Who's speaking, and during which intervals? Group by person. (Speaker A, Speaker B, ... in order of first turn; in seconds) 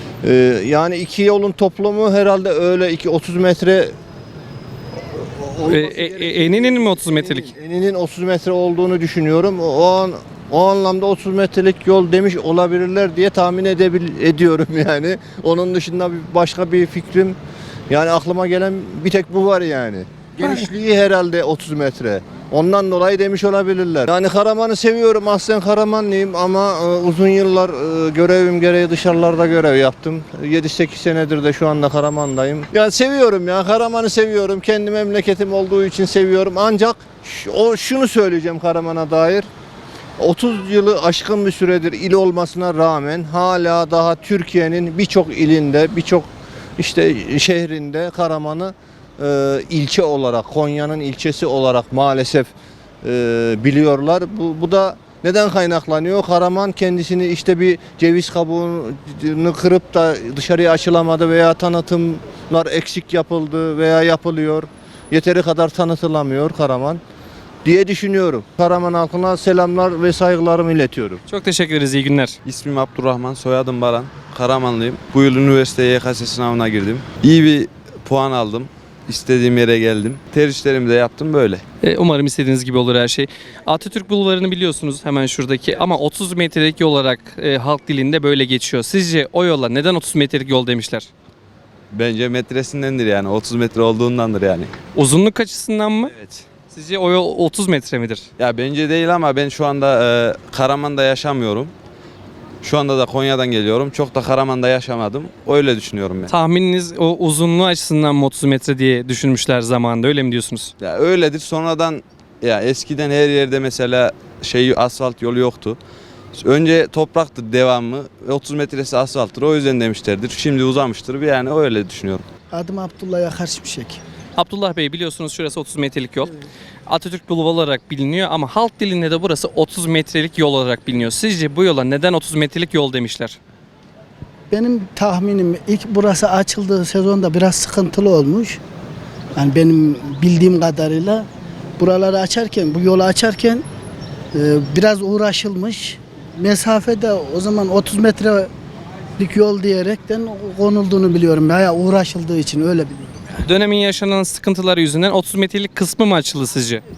Speaker A: 0.2-3.9, 5.4-17.4, 17.9-39.5, 40.2-52.5, 53.0-67.0, 67.6-71.2
Speaker B: 5.7-7.5, 71.3-72.4, 81.8-91.1, 94.9-96.1, 96.7-98.3, 106.3-110.7, 124.3-126.3, 126.9-133.4, 153.4-156.8
Speaker C: 72.4-81.6, 91.9-94.7, 96.1-96.4, 98.4-101.7, 102.6-106.3, 110.8-115.8, 116.3-122.2
Speaker D: 122.5-124.0, 134.5-138.6, 139.3-141.2, 141.8-143.6, 144.3-148.5, 149.2-153.1